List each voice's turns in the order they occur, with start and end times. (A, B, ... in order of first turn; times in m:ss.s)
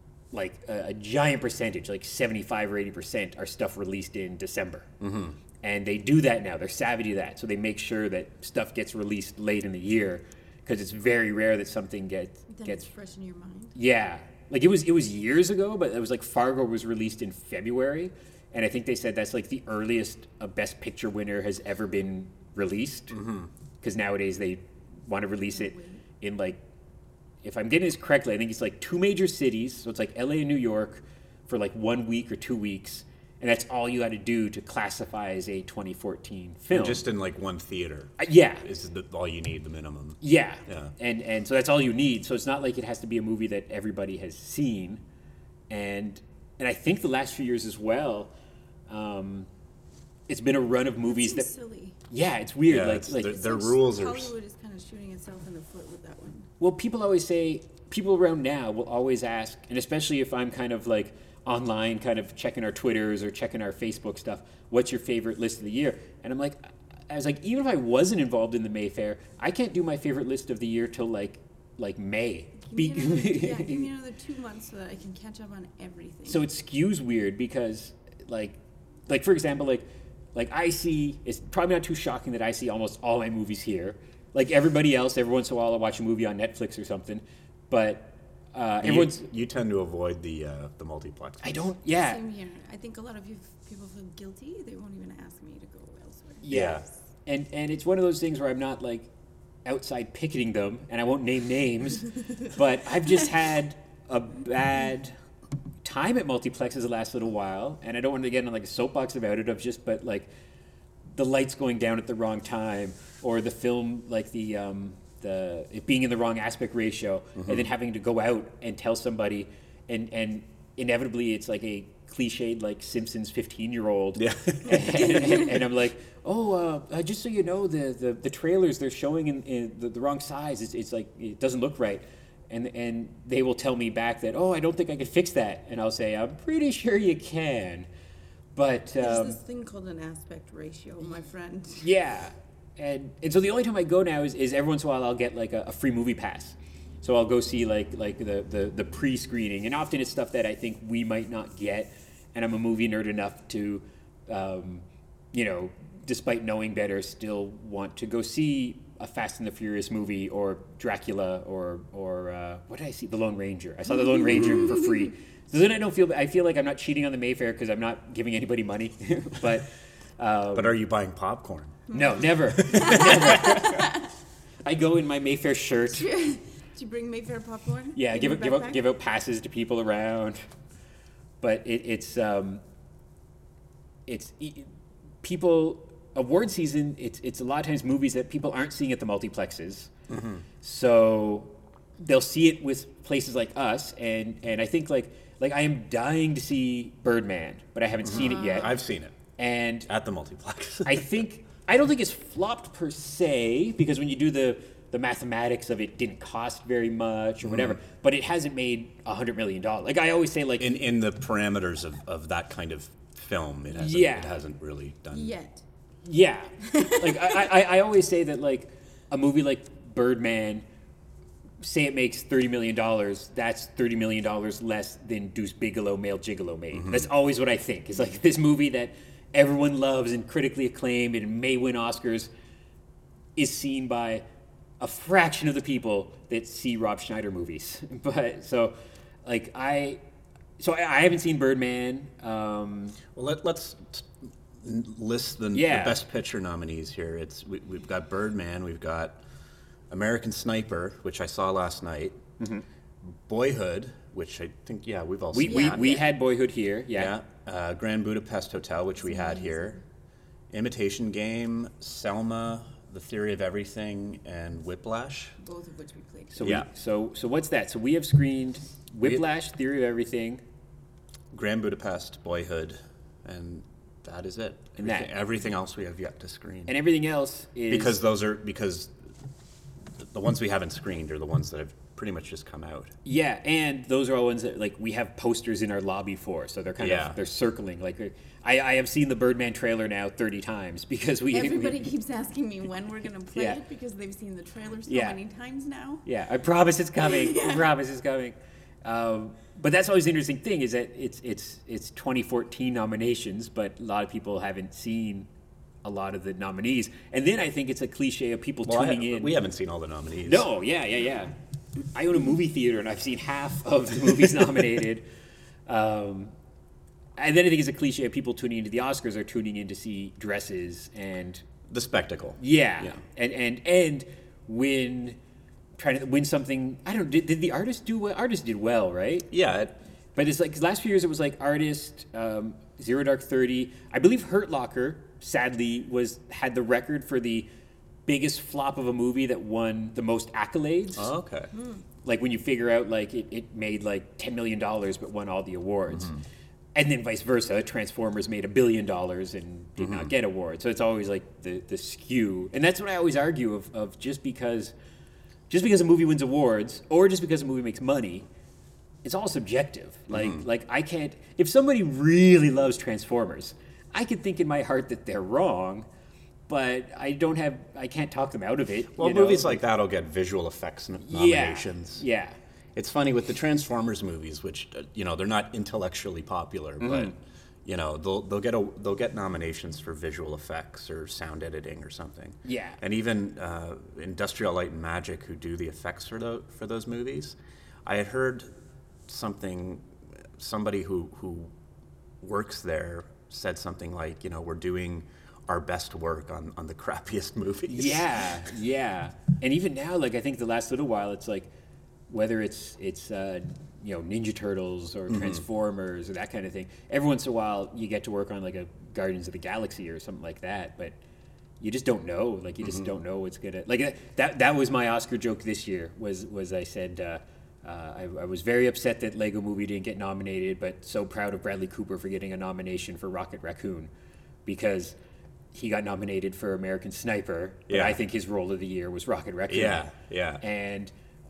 0:00.3-0:04.9 A
0:05.0-0:05.4 B
0:05.6-0:12.8 A
0:12.5-0:13.8 C
0:13.8-0:23.2 A
0:23.1-0:23.5 B
0:23.8-0:26.6 A
0:25.6-0:26.0 C
0:27.4-0:37.0 A
0:36.7-0:40.9 B
0:38.2-0:38.6 A
0:40.2-0:45.0 A
0:45.7-0:48.3 A
0:48.9-0:49.5 A
0:50.3-0:51.5 A
0:51.0-0:52.0 C
0:52.1-0:53.4 A
0:52.7-0:54.3 B
0:53.2-0:56.5 C
0:56.6-1:13.9 A
1:12.6-1:16.5 C
1:16.3-1:29.3 A
1:28.8-1:31.7 B
1:31.4-1:32.2 A
1:31.9-1:36.8 C
1:36.4-1:39.1 A
1:36.5-1:36.8 B
1:39.6-1:45.2 A
1:45.8-1:50.3 A
1:51.1-2:17.9 A
1:57.4-1:57.7 B
2:04.2-2:05.2 B
2:05.1-2:05.5 C
2:18.6-2:19.4 A
2:19.0-2:21.9 C
2:21.8-2:50.8 A
2:44.3-2:44.6 B
2:44.4-2:44.7 C
2:50.5-2:51.8 B
2:51.9-2:54.0 C
2:51.9-2:53.9 A
2:52.6-2:53.5 B
2:54.6-2:56.1 A
2:55.9-2:58.8 C
2:57.9-3:00.4 A
3:01.4-3:02.6 A
3:04.1-3:09.9 A
3:10.1-3:10.4 B
3:10.6-3:18.7 A
3:18.0-3:19.2 B
3:18.1-3:18.8 C
3:19.4-3:19.9 A
3:19.9-3:21.2 B
3:20.8-3:30.7 A
3:27.4-3:27.8 B
3:30.6-3:35.4 B
3:33.7-3:34.4 A
3:35.1-3:35.6 C
3:36.0-3:40.6 A
3:36.7-3:37.4 C
3:41.6-3:52.3 A
3:46.7-3:47.1 B
3:53.4-3:54.2 A
3:54.8-4:00.0 A
4:00.6-4:03.0 A
4:03.1-4:09.2 B
4:05.5-4:06.0 A
4:09.9-4:12.2 B
4:13.1-4:16.0 B
4:15.3-4:17.1 A
4:15.5-4:16.1 C
4:16.9-4:19.8 B
4:19.0-4:19.8 C
4:20.5-4:25.4 B
4:25.4-4:26.5 C
4:26.3-4:30.4 A
4:31.3-4:36.7 B
4:34.8-4:35.1 A
4:36.7-4:38.0 A
4:37.7-4:39.0 B
4:40.0-4:42.9 B
4:43.0-4:51.9 A
4:46.8-4:47.2 B
4:51.3-4:56.0 C
4:53.3-4:53.6 A
4:54.9-4:55.2 A
4:56.0-5:05.3 A
4:57.0-4:57.7 C
5:05.8-5:09.4 A
5:08.7-5:10.5 B
5:10.2-5:11.3 A
5:11.9-5:15.0 A
5:15.7-5:16.3 A
5:17.2-5:21.4 A
5:21.7-5:23.0 B
5:22.4-5:25.2 A
5:25.8-5:29.3 A
5:29.3-5:29.8 B
5:30.2-5:37.5 A
5:38.1-5:41.1 A
5:41.0-5:41.5 B
5:41.5-5:41.8 C
5:42.0-5:46.2 A
5:46.0-5:46.2 B
5:46.8-5:54.7 A
5:49.8-5:50.1 B
5:55.5-5:58.3 A
5:59.0-6:05.9 A
6:00.1-6:00.4 B
6:06.5-6:09.6 A
6:09.0-6:12.0 B
6:11.1-6:12.4 A
6:12.8-6:17.1 B
6:16.8-6:17.1 A
6:17.6-6:28.5 B
6:22.4-6:22.8 A
6:29.1-6:31.5 B
6:32.2-6:38.3 B
6:37.7-6:41.5 A
6:42.1-6:51.0 A
6:45.1-6:45.4 B
6:51.6-7:03.9 A
6:52.6-6:52.9 B
7:04.5-7:05.0 A
7:05.5-7:09.9 A
7:07.7-7:08.0 B
7:09.5-7:10.4 B
7:10.4-7:10.9 A